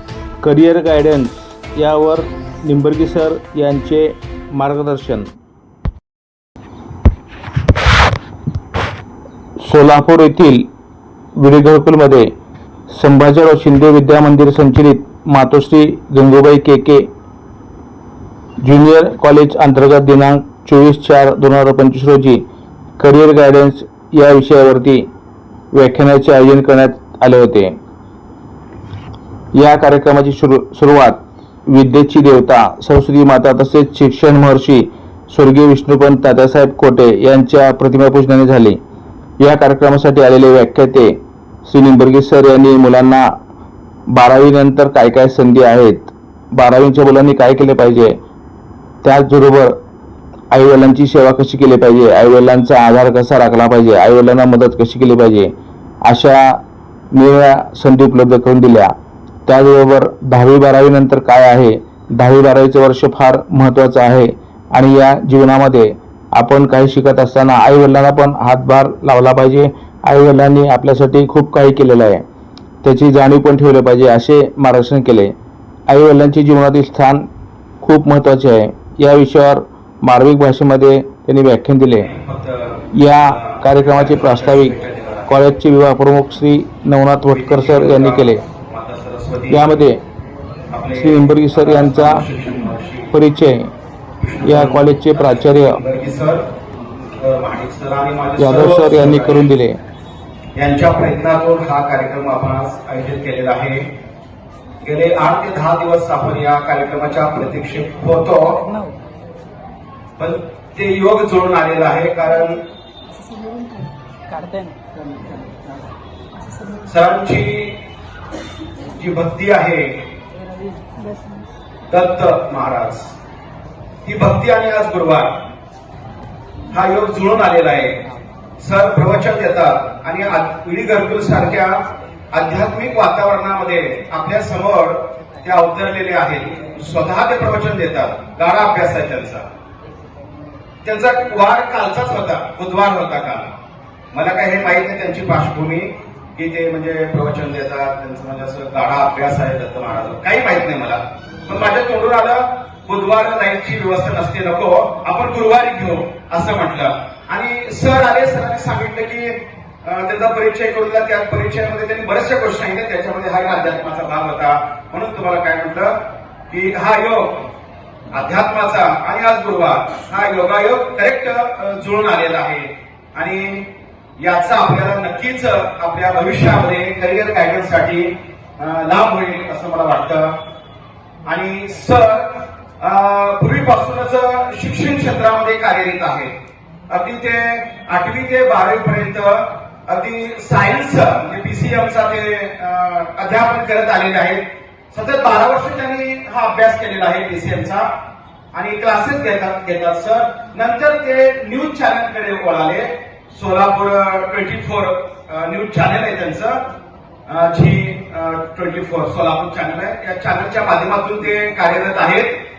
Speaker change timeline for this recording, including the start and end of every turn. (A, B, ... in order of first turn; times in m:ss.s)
0:00.4-0:05.3 A
0:09.6-0:10.7 A
0:11.4-0:12.3 A
0:12.9-0:17.1 A
0:18.6-0:22.4 A
0:23.0-0:25.1 A
0:25.7-0:27.8 A
0:29.5-0:38.8 A
0:39.4-0:43.3 A
0:44.1-0:48.2 A
0:49.0-0:49.8 A
0:50.5-0:55.5 A
0:56.0-0:58.9 A
0:59.4-1:12.2 A
1:12.8-1:15.3 A
1:15.9-1:17.3 A
1:17.8-1:22.1 A
1:22.0-1:25.4 B
1:22.9-1:24.7 A
1:25.3-1:28.4 A
1:27.3-1:29.8 B
1:29.5-1:30.0 A
1:30.7-1:33.1 B
1:30.9-1:32.2 A
1:33.1-1:33.7 A
1:34.2-1:36.5 B
1:34.4-1:35.8 A
1:37.2-1:39.5 B
1:38.4-1:39.8 A
1:40.6-1:43.9 B
1:44.8-1:48.7 B
1:50.2-1:52.6 B
1:56.8-1:57.8 B
1:58.9-2:00.0 B
2:01.9-2:03.1 B
2:04.0-2:05.4 B
2:06.7-2:08.0 B
2:08.6-2:19.4 B
2:20.8-2:23.5 B
2:24.1-2:47.5 B
2:48.1-2:53.7 B
2:54.2-3:00.4 B
3:01.2-3:06.3 B
3:06.9-3:17.9 B
3:18.5-3:26.6 B
3:27.3-3:32.3 B